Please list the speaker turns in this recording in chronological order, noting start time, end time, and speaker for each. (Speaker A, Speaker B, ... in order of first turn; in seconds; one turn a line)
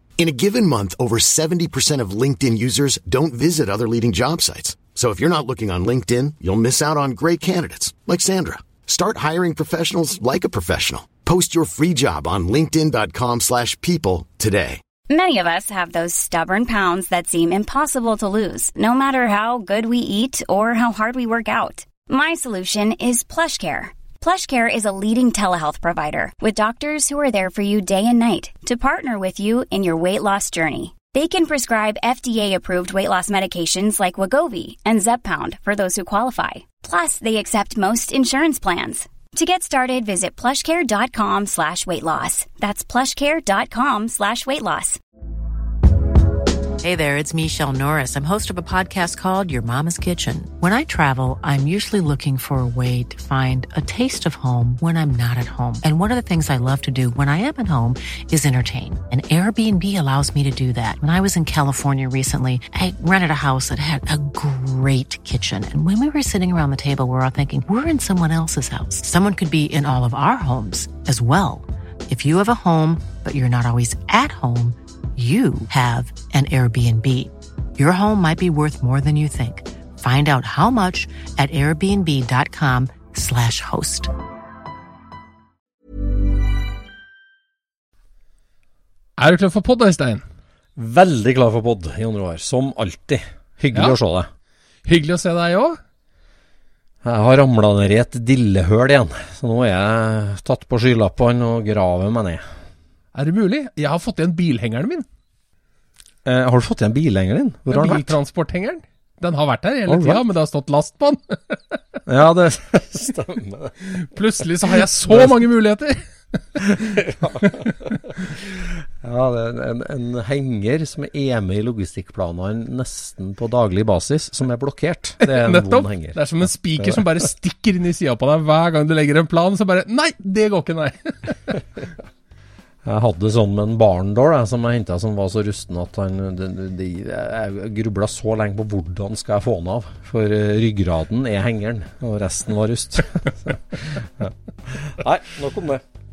Speaker A: 0.2-14.8
Speaker B: 15.1-45.0
Speaker C: 46.8-84.1
Speaker D: 89.2-90.2
Speaker E: 90.8-94.3
Speaker D: 94.8-95.8
Speaker E: 97.0-102.4
Speaker D: 103.2-105.1
Speaker E: 106.2-108.2
Speaker D: 107.7-111.8
Speaker E: 109.9-110.2
Speaker E: 112.1-113.8
Speaker D: 113.8-118.1
Speaker E: 114.7-115.4
Speaker E: 116.7-127.2
Speaker D: 125.2-131.6
Speaker E: 132.8-145.8